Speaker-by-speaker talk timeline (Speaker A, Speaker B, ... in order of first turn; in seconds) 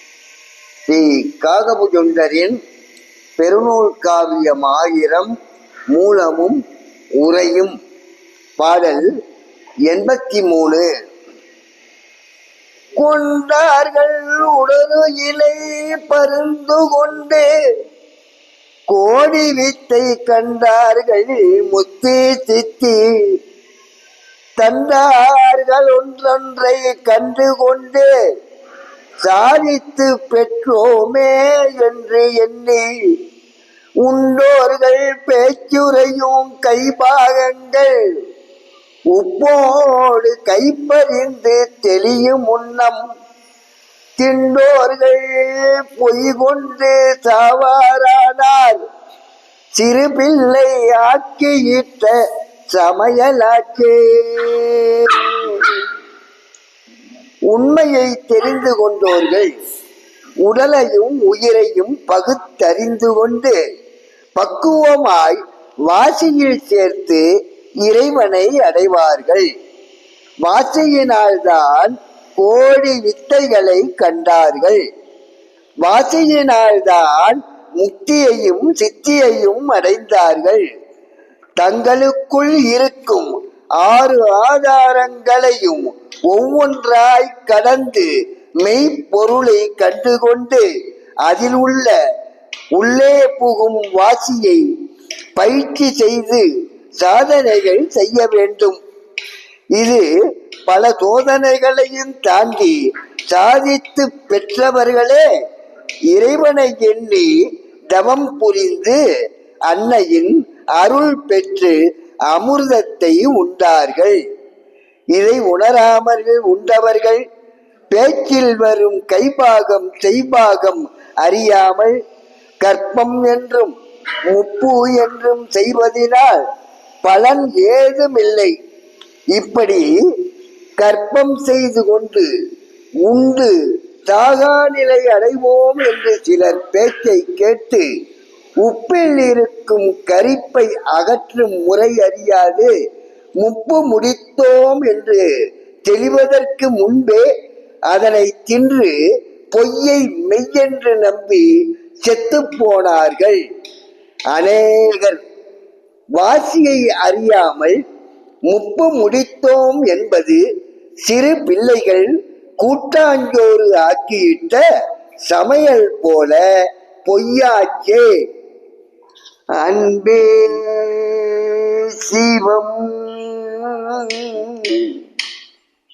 Speaker A: 0.8-2.6, 3.4-5.3, 5.9-6.6, 7.2-7.8, 8.6-9.1, 9.9-10.9, 13.0-17.5, 18.9-23.3, 24.6-28.1, 29.2-32.9, 34.0-37.9, 39.1-43.0, 44.2-48.8, 49.8-52.1, 52.7-55.8, 57.5-59.5, 60.4-63.5, 64.4-67.2, 67.8-69.5, 70.4-74.8, 75.8-80.6, 81.6-88.1, 88.6-90.6, 91.2-91.9, 92.7-94.6, 95.3-96.5, 97.0-98.8, 99.8-100.1, 100.7-102.8, 103.3-105.2, 106.1-107.3, 107.9-109.0, 109.7-111.8, 112.3-114.2, 115.1-117.2, 117.9-122.0, 122.6-123.7, 124.3-126.4, 127.0-128.5, 129.3-129.9, 130.8-132.3, 133.1-133.5, 134.1-137.9, 138.6-142.7, 143.4-145.2, 145.9-147.2, 147.9-148.9, 149.5-151.5, 152.1-153.4, 154.3-155.2, 156.2-157.8, 158.5-160.4, 161.1-162.1, 162.6-164.6, 165.3-166.4, 167.1-168.1, 169.6-175.0